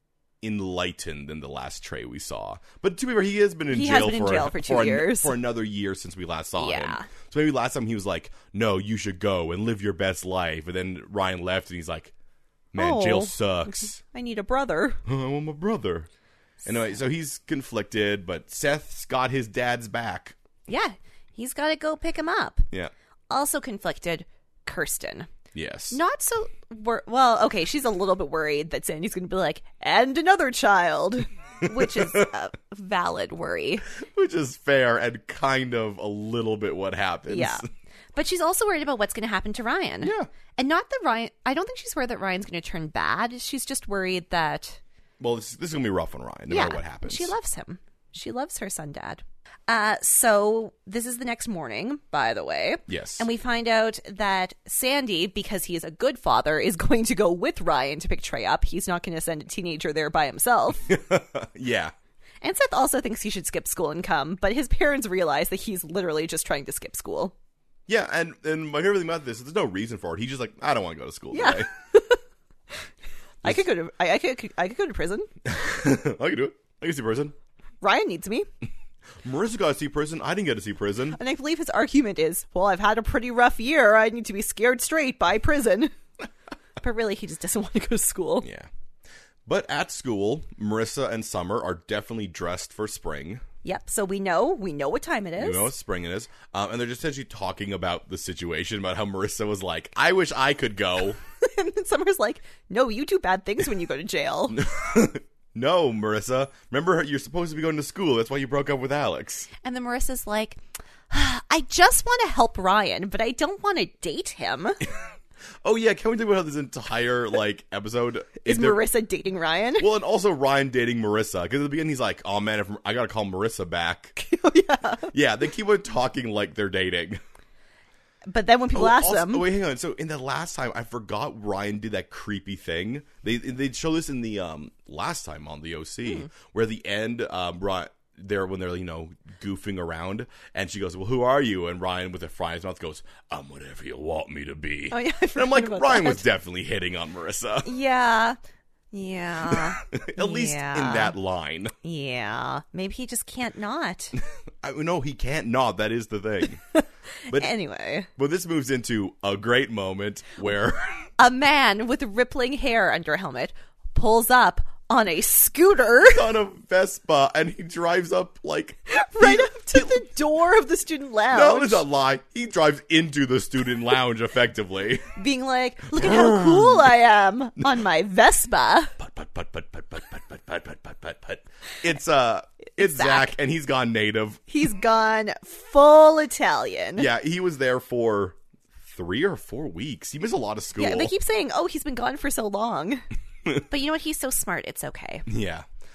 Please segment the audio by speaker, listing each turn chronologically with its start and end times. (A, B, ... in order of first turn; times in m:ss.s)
0:00.4-0:12.1 A
0:03.7-0:05.4 B
0:06.6-0:07.1 B
0:12.7-0:14.0 A
0:12.8-0:15.0 B
0:15.1-0:16.1 A
0:16.6-0:20.4 A
0:20.7-0:22.7 B
0:23.3-0:25.3 B
0:25.5-0:26.0 A
0:25.9-0:33.9 B
0:31.6-0:32.3 A
0:33.9-0:37.6 A
0:37.3-0:44.8 B
0:40.0-0:40.3 A
0:45.2-0:47.3 A
0:46.5-1:00.9 B
0:52.9-0:53.3 A
1:00.9-1:01.9 A
1:02.4-1:07.3 B
1:07.9-1:11.7 A
1:11.3-1:12.2 B
1:13.4-1:15.3 B
1:15.4-1:17.4 A
1:17.8-1:18.5 B
1:19.2-1:21.2 A
1:21.1-1:25.9 B
1:26.8-1:28.5 B
1:28.4-1:28.7 A
1:29.5-1:33.4 A
1:33.6-1:35.7 B
1:35.4-1:41.2 A
1:41.4-1:44.6 B
1:44.5-1:49.5 A
1:49.6-1:54.8 B
1:55.6-1:58.8 A
1:58.4-1:59.9 B
1:59.8-2:04.2 A
2:04.2-2:05.1 B
2:05.1-2:07.2 A
2:08.3-2:09.5 B
2:08.7-2:27.7 A
2:24.9-2:26.3 B
2:27.6-2:28.4 B
2:28.9-2:31.2 B
2:29.5-2:31.7 A
2:31.8-2:34.2 B
2:34.2-2:36.6 A
2:36.7-2:38.1 B
2:38.2-2:41.0 A
2:41.2-2:46.3 B
2:46.0-2:50.0 A
2:48.9-2:51.8 B
2:51.3-2:55.1 A
2:55.2-2:58.9 B
2:55.9-2:56.9 A
2:59.0-3:04.4 A
3:02.8-3:03.4 B
3:04.5-3:07.1 B
3:07.0-3:11.1 A
3:10.8-3:13.0 B
3:13.6-3:15.3 B
3:15.3-3:15.7 A